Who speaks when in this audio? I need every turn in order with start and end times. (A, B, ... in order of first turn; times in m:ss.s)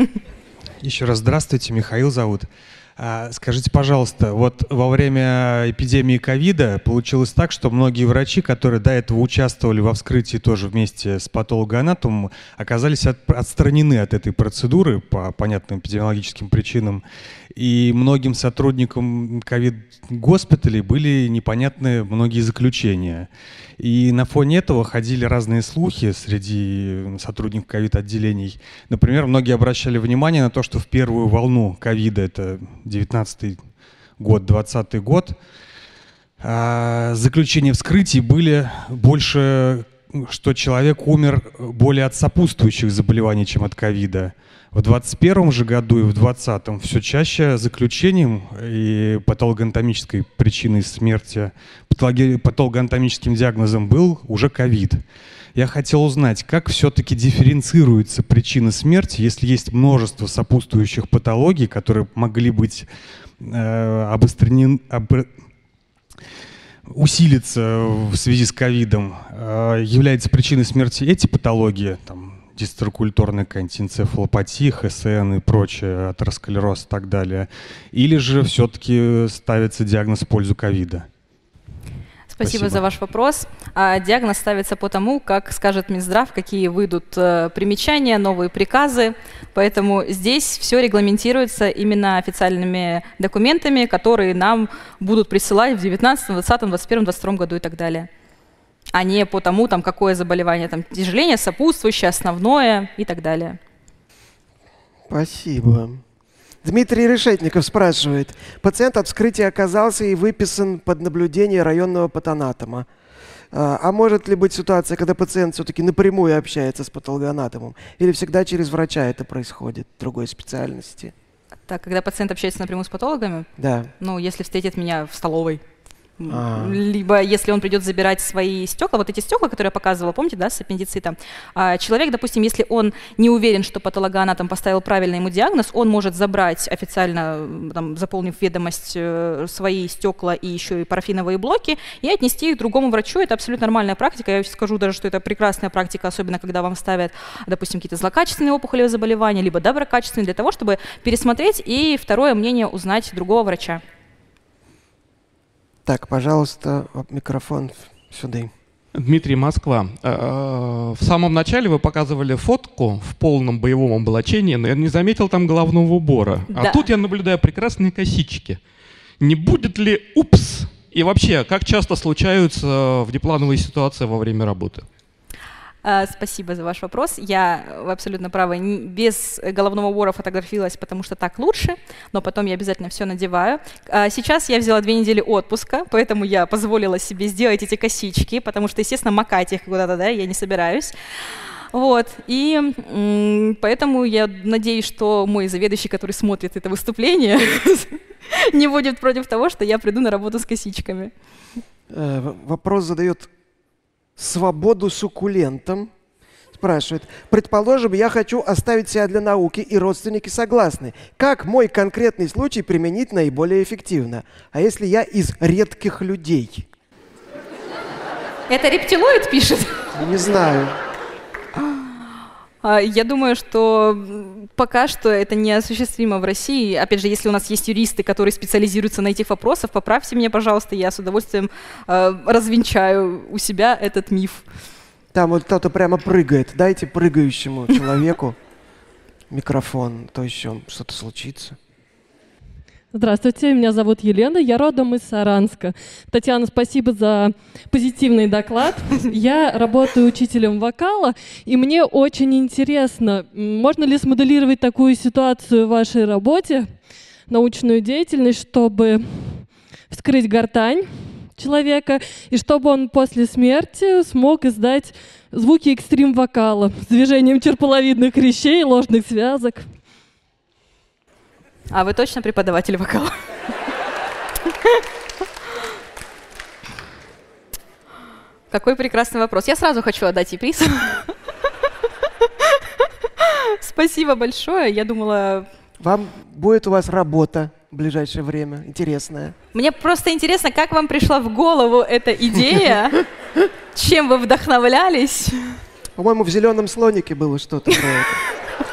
0:00.8-0:17.0 A
0:17.6-0:33.6 A
0:34.2-0:35.4 A
0:36.4-0:55.0 A
0:55.6-1:02.9 A
1:03.4-1:05.3 A
1:06.9-1:21.1 A
1:22.3-1:38.1 B
1:22.4-1:22.8 A
1:38.9-1:43.6 B
1:45.1-1:46.0 C
1:46.6-1:52.9 C
1:53.5-2:01.1 C
2:01.7-2:03.5 B
2:03.6-2:03.9 C
2:04.0-2:05.6 B
2:06.2-2:33.8 B
2:06.3-2:06.8 C
2:35.9-2:38.5 C
2:38.9-2:48.7 D
2:46.5-2:46.9 B
2:49.2-2:54.9 D
2:55.8-3:10.9 B
3:11.7-3:21.1 B
3:21.9-3:23.3 C
3:24.2-3:25.9 C
3:26.5-3:36.7 C
3:38.5-3:39.8 B
3:40.0-3:40.8 C
3:41.6-3:42.0 B
3:42.6-3:54.4 B
3:55.1-3:58.4 C
3:59.3-4:01.6 C
4:02.9-4:29.7 E
4:31.7-4:33.1 B
4:38.5-4:41.1 B
4:43.2-4:45.5 B
4:45.8-4:49.4 C
4:49.5-4:53.0 B
4:53.8-4:55.6 B
4:56.0-4:58.2 C